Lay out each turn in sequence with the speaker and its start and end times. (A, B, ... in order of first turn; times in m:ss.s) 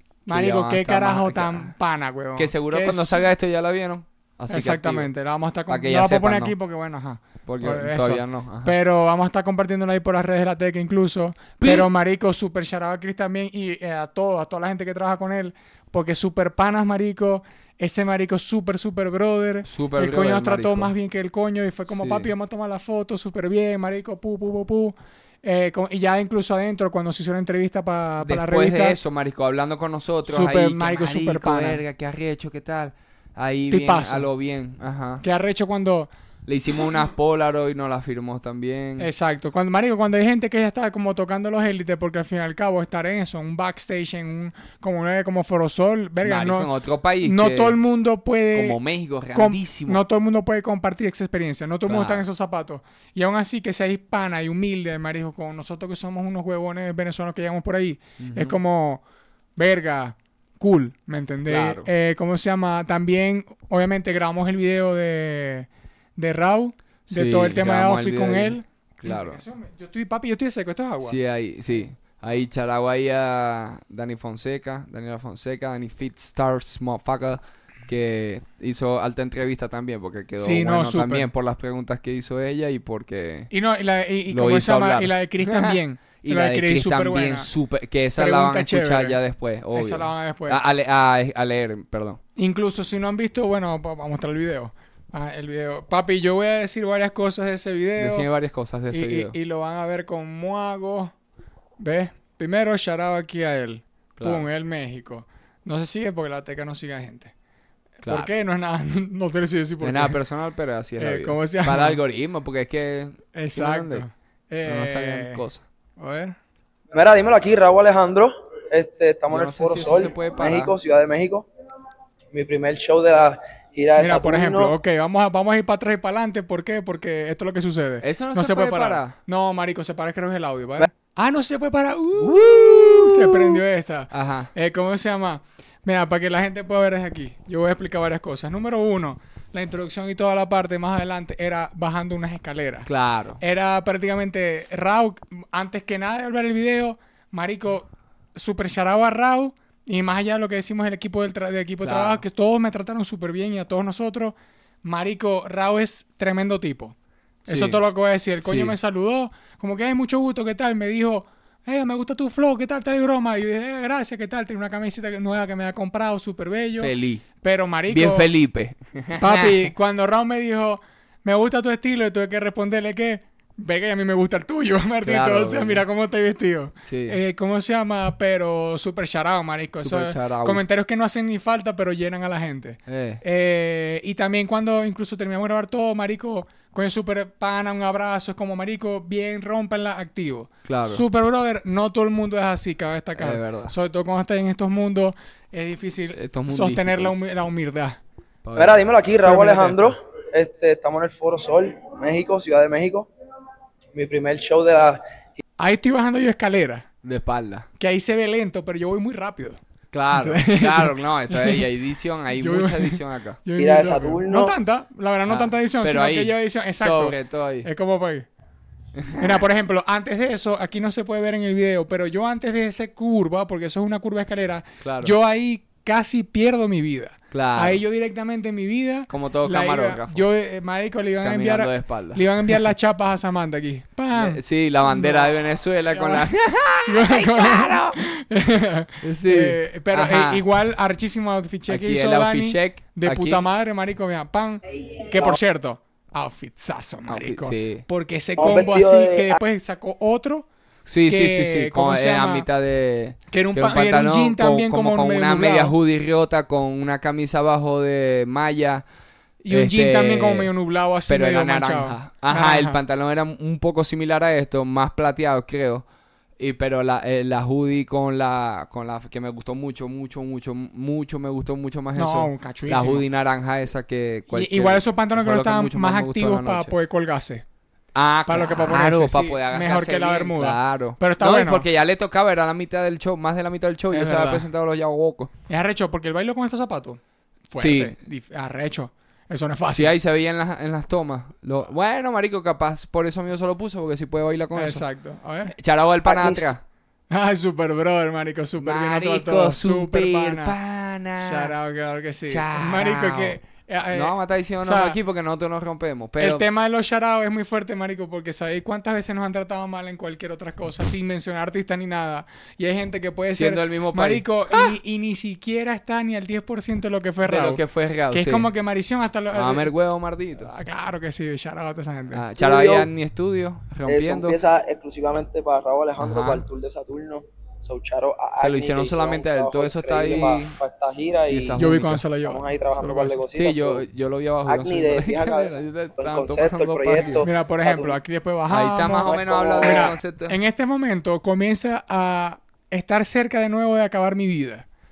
0:00.2-0:03.2 A
0:00.3-0:01.7 B
0:02.4-0:05.1 B
0:04.5-0:29.0 A
0:05.7-0:06.5 B
0:07.4-0:08.8 B
0:11.6-0:11.9 B
0:19.6-0:20.9 B
0:21.9-0:22.3 B
0:28.2-0:35.2 B
0:30.3-0:31.8 A
0:33.7-0:34.3 A
0:35.2-0:36.1 A
0:36.4-0:39.1 B
0:39.0-0:46.7 A
0:46.2-0:47.8 B
0:47.2-0:48.8 A
0:48.5-0:50.0 B
0:49.3-0:59.0 A
0:51.8-0:52.2 B
0:58.2-0:58.6 B
0:59.6-1:11.2 A
1:01.4-1:01.9 B
1:07.1-1:09.4 B
1:11.0-1:23.5 B
1:20.4-1:21.2 A
1:23.5-1:27.5 A
1:24.3-1:32.2 B
1:28.2-1:29.2 A
1:29.7-1:30.6 A
1:32.4-1:38.3 A
1:38.0-1:39.3 B
1:38.9-1:41.1 A
1:41.8-1:47.3 A
1:44.2-1:44.4 B
1:48.0-1:48.3 B
1:48.0-1:50.2 A
1:49.8-1:54.0 B
1:51.0-1:52.0 A
1:53.3-1:55.4 A
1:54.6-1:55.6 B
1:56.0-1:56.4 A
1:56.9-2:01.5 C
1:59.3-2:00.7 B
2:02.3-2:04.7 C
2:04.0-2:22.9 A
2:08.0-2:09.2 B
2:12.2-2:14.5 B
2:22.8-2:23.4 B
2:23.4-2:36.9 A
2:31.8-2:32.2 B
2:37.4-2:48.3 A
2:37.5-2:37.8 B
2:38.4-2:38.7 B
2:46.8-2:47.2 B
2:47.9-2:49.7 B
2:49.2-3:18.0 A
2:55.0-2:55.8 B
2:56.8-2:57.2 B
2:59.8-3:00.6 B
3:02.9-3:03.2 B
3:10.6-3:11.0 B
3:13.2-3:13.7 B
3:16.1-3:17.2 B
3:18.4-3:18.9 B
3:18.5-3:23.1 C
3:19.2-3:19.9 A
3:23.9-3:25.0 C
3:25.6-3:26.9 A
3:27.0-3:27.7 B
3:27.8-3:29.6 A
3:29.9-3:33.4 B
3:30.1-3:31.6 A
3:32.3-3:38.3 A
3:33.6-3:34.5 C
3:35.3-3:37.7 B
3:39.0-3:39.4 B
3:39.2-3:55.4 A
3:44.8-3:45.1 B
3:47.3-3:47.8 B
3:49.1-3:50.2 B
3:51.2-3:52.2 B
3:54.1-3:58.0 B
3:55.9-3:56.3 A
3:56.8-4:10.4 A
3:59.0-4:00.4 B
4:01.7-4:03.4 B
4:07.1-4:07.8 B
4:08.4-4:09.4 C
4:10.8-4:18.8 B
4:11.1-4:12.5 A
4:13.3-4:15.7 A
4:19.4-4:22.8 A
4:19.5-4:20.5 B
4:21.1-4:25.8 B
4:26.4-4:36.7 B
4:31.9-4:33.0 A
4:34.3-4:37.4 A
4:37.9-4:45.3 B
4:38.2-4:41.6 A
4:43.9-4:44.5 A
4:45.5-4:49.9 A
4:47.6-4:48.0 B
4:49.7-4:54.8 B
4:54.5-4:55.5 A
4:55.5-4:56.6 B
4:56.0-4:56.4 C
4:57.1-5:00.5 A
4:58.6-5:01.5 B
5:01.2-5:05.0 A
5:02.3-5:03.4 B
5:03.9-5:06.4 B
5:06.2-5:19.7 A
5:13.3-5:14.8 B
5:17.2-5:18.5 B
5:19.3-5:20.5 B
5:20.4-5:22.2 A
5:22.1-5:24.4 B
5:22.4-5:22.9 C
5:23.8-5:31.6 C
5:26.0-5:26.4 B
5:28.4-5:30.6 B
5:31.3-5:32.0 B
5:31.6-5:33.2 A
5:32.2-5:33.8 C
5:33.3-5:37.2 B
5:34.4-5:38.0 C
5:37.2-5:44.7 A
5:38.5-5:40.4 B
5:39.0-5:39.9 C